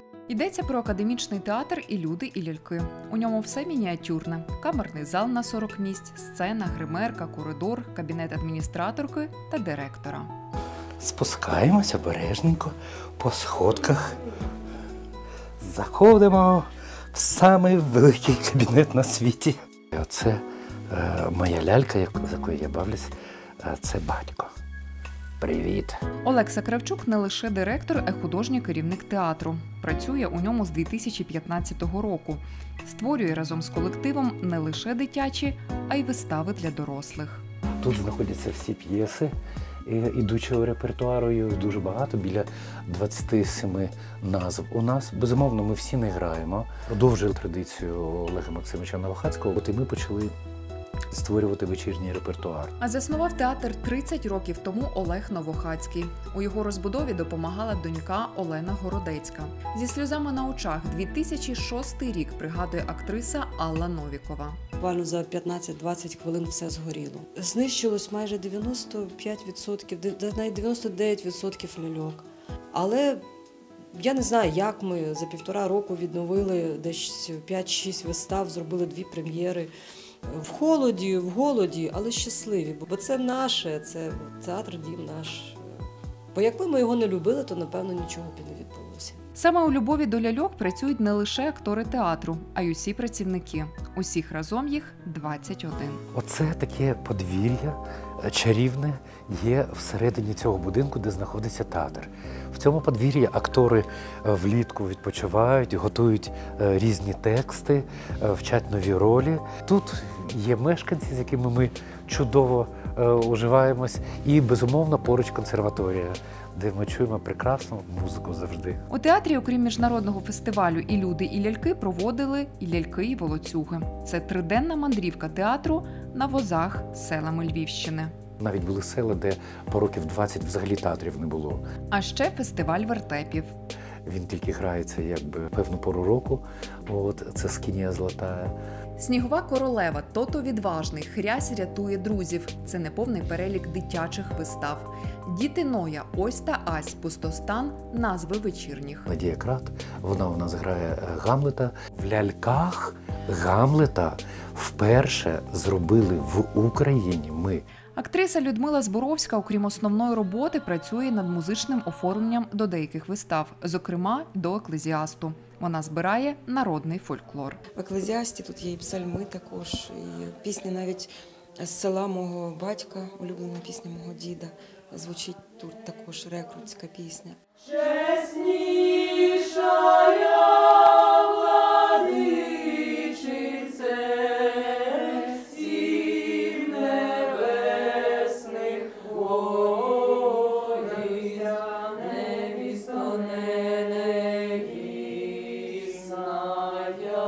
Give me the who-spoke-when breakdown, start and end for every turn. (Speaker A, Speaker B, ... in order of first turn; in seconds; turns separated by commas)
Speaker A: 0.3-10.3, Speaker B: 11.0-14.2, Speaker B: 15.6-24.5, Speaker B: 25.4-26.0, Speaker A: 26.2-37.4, Speaker B: 37.8-39.3, Speaker B: 39.9-50.3, Speaker B: 51.1-52.7, Speaker A: 52.8-64.6, Speaker C: 64.8-73.2, Speaker C: 73.9-79.7, Speaker C: 80.3-85.6, Speaker C: 86.3-89.2, Speaker A: 89.4-96.0, Speaker B: 96.1-118.8, Speaker A: 118.9-128.1, Speaker B: 128.4-131.6, Speaker A: 131.9-133.5, Speaker B: 134.1-138.6, Speaker A: 139.0-149.1, Speaker B: 149.1-157.7, Speaker A: 157.9-167.6, Speaker D: 167.8-177.4, Speaker A: 188.5-189.1, Speaker A: 192.6-193.5